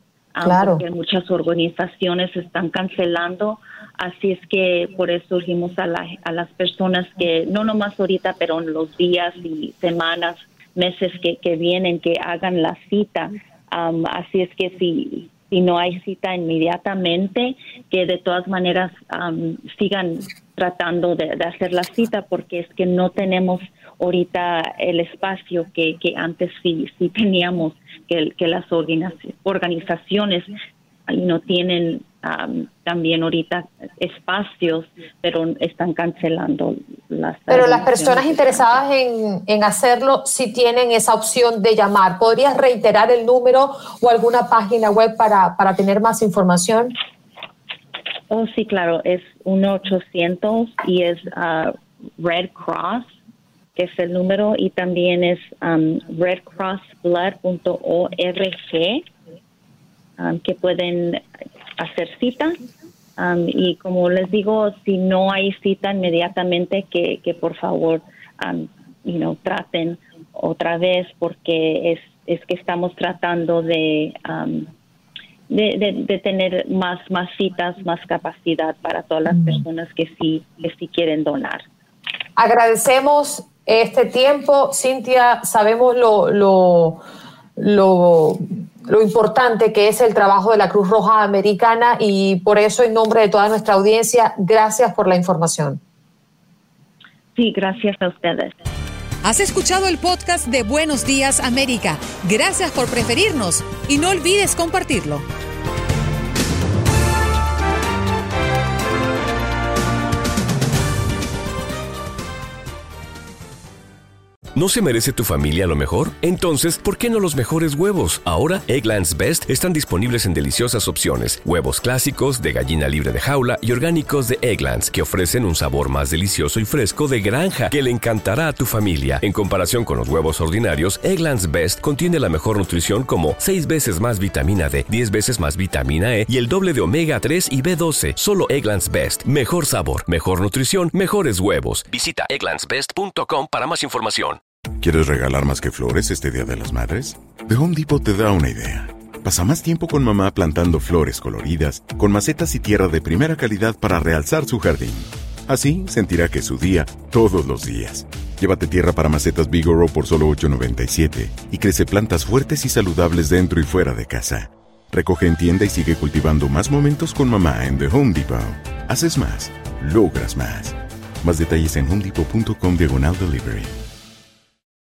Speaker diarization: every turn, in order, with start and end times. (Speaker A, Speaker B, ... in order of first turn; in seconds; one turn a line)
Speaker A: 0.3-30.6
Speaker B: 0.4-0.8
Speaker A: 31.1-38.8
Speaker B: 37.5-46.9
Speaker A: 48.3-53.1
Speaker A: 53.8-59.0
Speaker A: 60.2-61.2
Speaker A: 61.8-62.5
Speaker A: 63.2-74.7
Speaker A: 75.5-81.6
Speaker B: 82.4-87.0
Speaker B: 87.6-95.8
Speaker A: 97.3-98.6
Speaker C: 99.2-105.2
Speaker D: 114.5-144.4
Speaker E: 144.8-173.7